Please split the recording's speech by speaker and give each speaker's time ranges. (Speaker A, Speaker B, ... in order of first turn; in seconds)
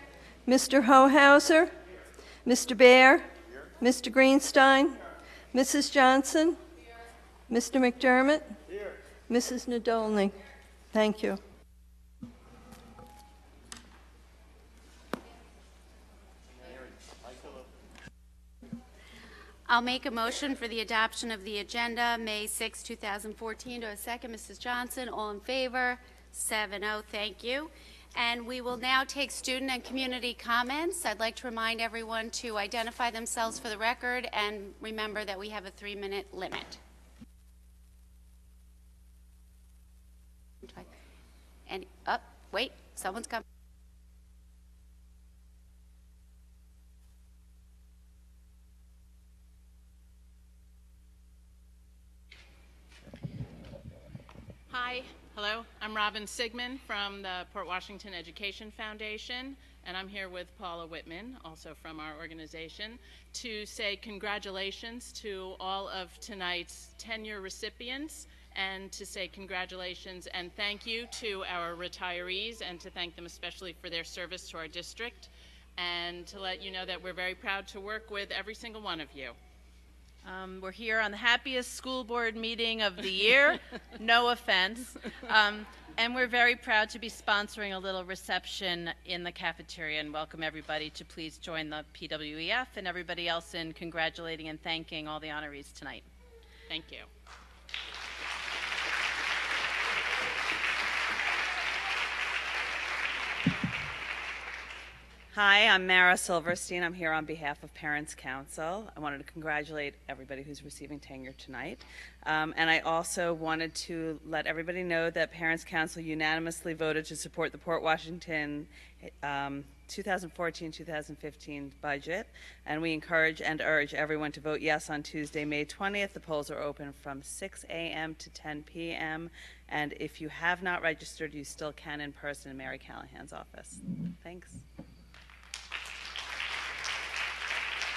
Speaker A: 0.5-1.7, 2.5-3.3, 3.8-5.0, 5.5-6.6, 7.5-8.6, 9.3-10.3, 10.9-11.4
Speaker B: 19.7-36.8, 40.6-40.9, 41.7-43.4
Speaker C: 54.7-79.4, 96.7-97.1
Speaker D: 80.2-96.1
Speaker E: 105.3-134.6